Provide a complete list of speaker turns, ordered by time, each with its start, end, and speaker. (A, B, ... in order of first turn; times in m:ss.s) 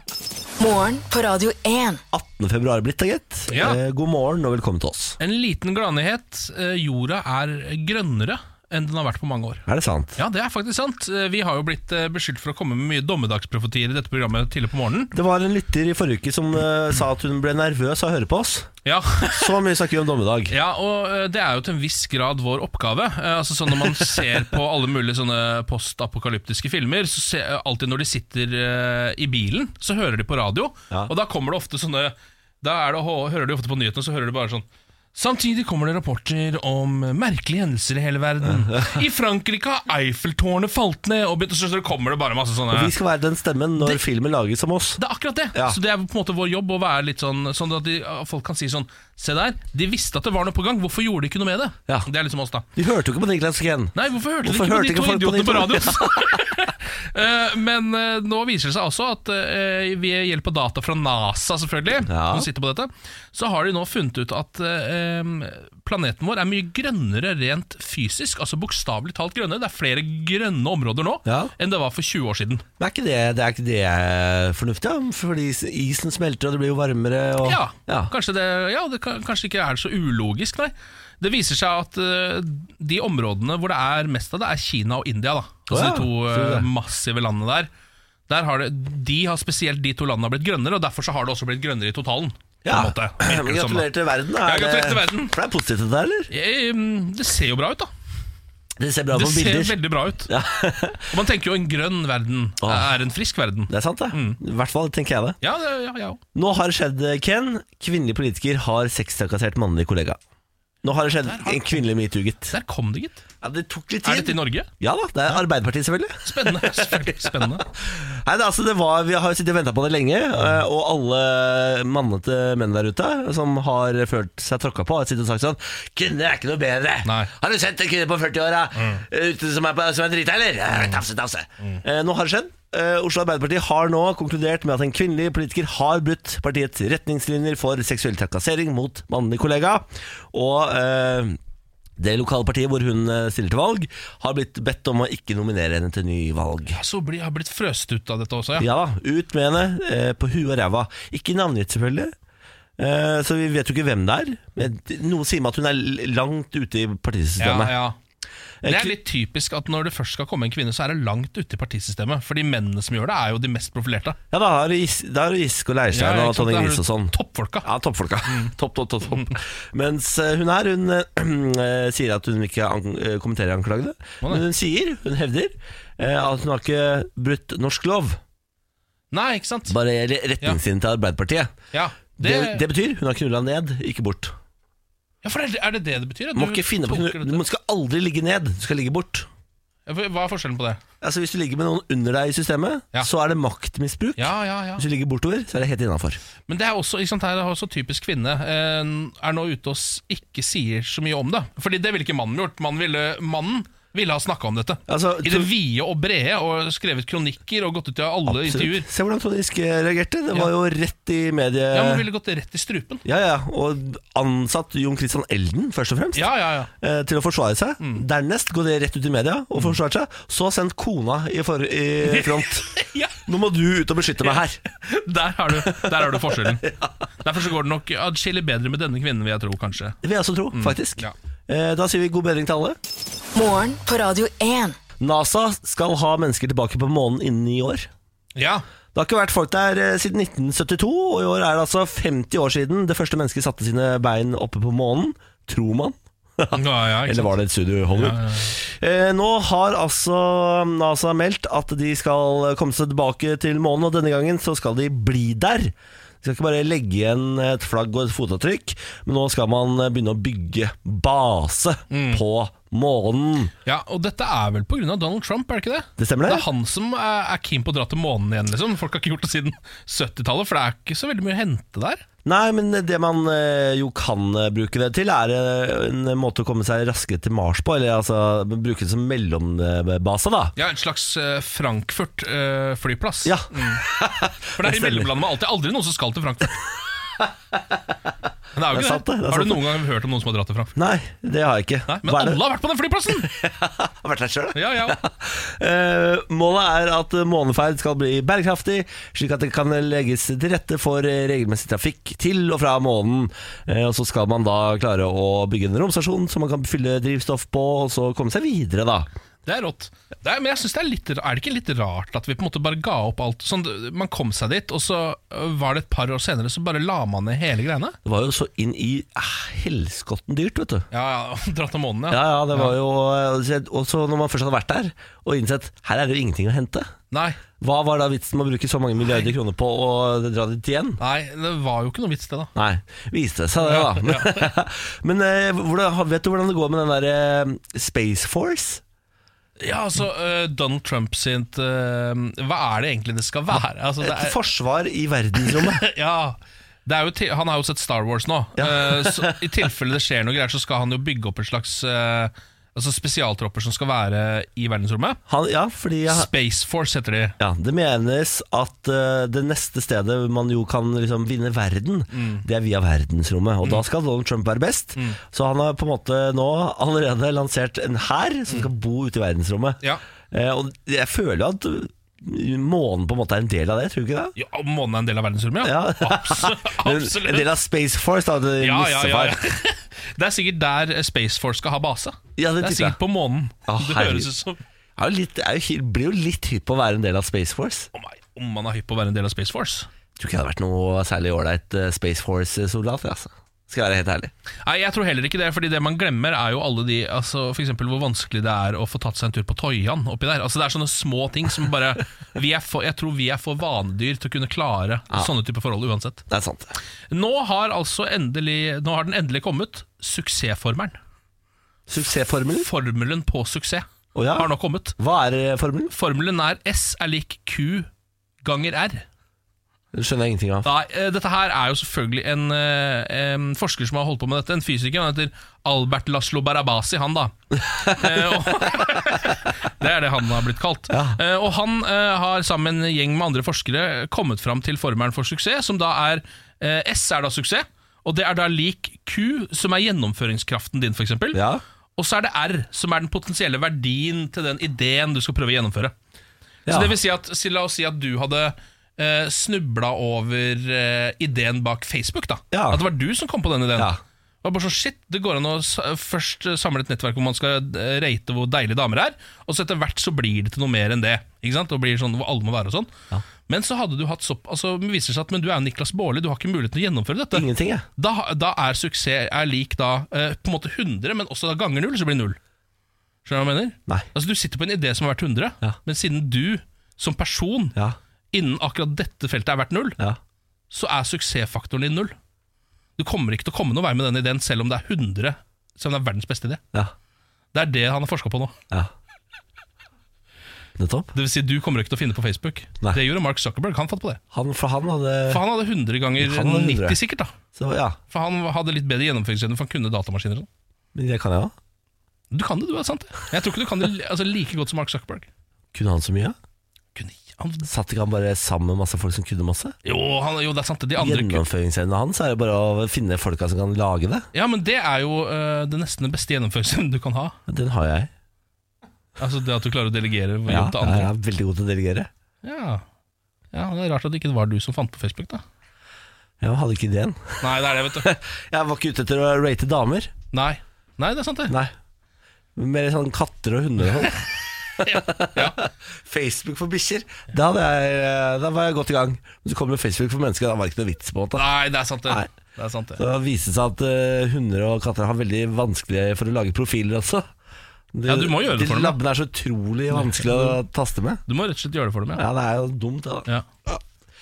0:00.6-0:02.0 A
0:02.1-0:05.2 B
0:03.5-0:03.8 C
0:05.2-0:15.1 C
0:09.7-0:10.2 B
0:15.1-0:18.7 B
0:18.8-0:19.5 C
0:19.2-0:20.5 B
0:20.5-0:42.9 C
0:23.9-0:24.4 B
0:38.4-0:39.0 B
0:42.7-0:45.0 B
0:45.0-0:52.6 C
0:45.5-0:45.8 B
0:52.8-0:56.4 B
0:53.9-1:12.6 C
1:02.0-1:02.5 B
1:11.2-1:11.5 B
1:12.8-1:18.1 B
1:17.4-1:27.7 C
1:25.7-1:26.7 B
1:28.3-1:33.9 C
1:32.6-1:36.3 B
1:34.4-1:35.3 C
1:36.3-1:37.9 C
1:38.8-1:41.1 B
1:39.1-1:40.3 C
1:41.1-1:44.4 C
1:42.6-1:43.0 B
1:43.7-1:45.4 B
1:45.4-1:46.2 C
1:46.3-1:50.2 B
1:50.8-1:52.5 B
1:51.2-1:51.8 C
1:52.5-1:53.2 C
1:53.4-2:21.4 B
1:54.0-1:54.7 C
1:56.2-1:57.6 C
2:07.0-2:07.3 C
2:08.7-2:09.0 C
2:22.0-2:26.8 B
2:26.7-2:28.7 C
2:28.6-2:32.1 B
2:32.8-2:37.7 B
2:37.4-2:38.0 C
2:38.6-2:39.0 B
2:38.7-2:44.2 C
2:44.3-2:58.2 B
2:45.9-2:47.7 C
2:48.3-2:48.5 C
2:49.1-2:49.3 C
2:59.1-2:59.8 C
2:59.7-3:01.5 B
3:01.7-3:02.6 C
3:02.2-3:04.3 B
3:05.2-3:07.4 C
3:06.3-3:09.3 B
3:09.9-3:10.8 C
3:11.0-3:16.2 B
3:14.2-3:14.8 C
3:16.5-3:28.9 C
3:24.9-3:25.5 B
3:28.3-3:32.0 B
3:31.7-3:33.0 C
3:33.0-3:44.6 B
3:36.1-3:36.7 C
3:42.0-3:43.2 C
3:44.2-3:46.7 C
3:45.5-3:46.9 B
3:47.2-3:50.0 C
3:50.0-3:52.8 B
3:50.5-3:51.1 C
3:53.3-3:54.8 A
3:55.0-3:57.9 B
3:58.4-3:58.6 C
3:58.9-4:23.5 B
4:06.5-4:07.3 C
4:07.9-4:08.5 C
4:21.9-4:22.2 C
4:23.6-4:32.0 C
4:26.0-4:26.5 B
4:32.2-4:40.5 B
4:40.6-4:43.8 C
4:43.2-4:45.1 B
4:44.6-4:46.6 C
4:47.2-4:47.8 B
4:48.5-4:50.7 C
4:48.7-4:49.8 B
4:50.8-4:52.4 B
4:51.9-4:53.3 C
4:53.1-5:09.1 B
4:54.5-4:55.0 C
5:09.4-5:18.0 C
5:18.0-5:20.8 B
5:20.9-5:22.8 C
5:22.1-5:26.9 B
5:27.1-5:27.4 C
5:27.6-5:31.0 B
5:31.0-5:32.5 C
5:32.5-5:38.8 B
5:33.6-5:34.5 C
5:39.6-5:44.4 C
5:44.0-5:45.8 B
5:45.4-5:55.2 C
5:48.6-5:49.5 B
5:55.3-5:56.3 B
5:56.1-5:57.4 C
5:57.4-6:14.4 B
6:02.1-6:02.4 C
6:14.4-6:17.5 C
6:15.6-6:19.4 B
6:18.6-6:24.6 C
6:22.4-6:23.0 B
6:23.7-6:24.3 B
6:25.0-6:27.9 B
6:27.9-6:29.9 C
6:30.2-6:34.3 B
6:34.6-6:46.2 C
6:46.3-6:46.7 B
6:47.1-6:51.0 C
6:51.9-6:52.7 B
6:52.5-6:55.0 C
6:54.1-6:55.9 B
6:55.9-6:57.9 C
6:58.4-6:59.0 C
6:59.9-7:00.7 B
7:00.6-7:21.4 C
7:10.9-7:11.2 B
7:21.3-7:21.6 B
7:22.0-7:25.9 C
7:26.6-7:26.9 B
7:26.7-7:42.9 C
7:32.5-7:32.8 B
7:43.5-7:52.4 C
7:47.3-7:47.8 B
7:53.2-7:57.8 C
7:58.3-8:00.0 C
8:00.7-8:02.1 C
8:03.0-8:06.6 C
8:07.5-8:08.5 C
8:10.8-8:11.1 B
8:11.1-8:14.2 C
8:14.3-8:15.4 B
8:15.3-8:17.3 C
8:16.2-8:17.0 B
8:17.5-8:18.0 B
8:18.1-8:20.5 C
8:20.9-8:21.5 B
8:22.3-8:25.3 C
8:25.7-8:26.4 B
8:26.9-8:27.7 C
8:27.6-8:29.7 B
8:29.8-8:31.4 C
8:31.0-8:34.3 B
8:34.3-8:37.4 C
8:37.5-8:38.1 B
8:39.2-8:41.1 C
8:40.5-8:42.1 B
8:42.4-8:42.8 C
8:43.5-8:45.4 C
8:46.4-8:50.1 B
8:47.4-8:48.1 C
8:50.3-8:51.5 C
8:52.6-8:54.3 B
8:54.8-9:01.4 B
8:54.8-8:55.6 C
9:01.3-9:03.0 C
9:03.0-9:07.2 B
9:07.9-9:11.2 B
9:08.1-9:09.0 C
9:09.9-9:10.6 C
9:11.3-9:12.2 C
9:12.1-9:13.8 B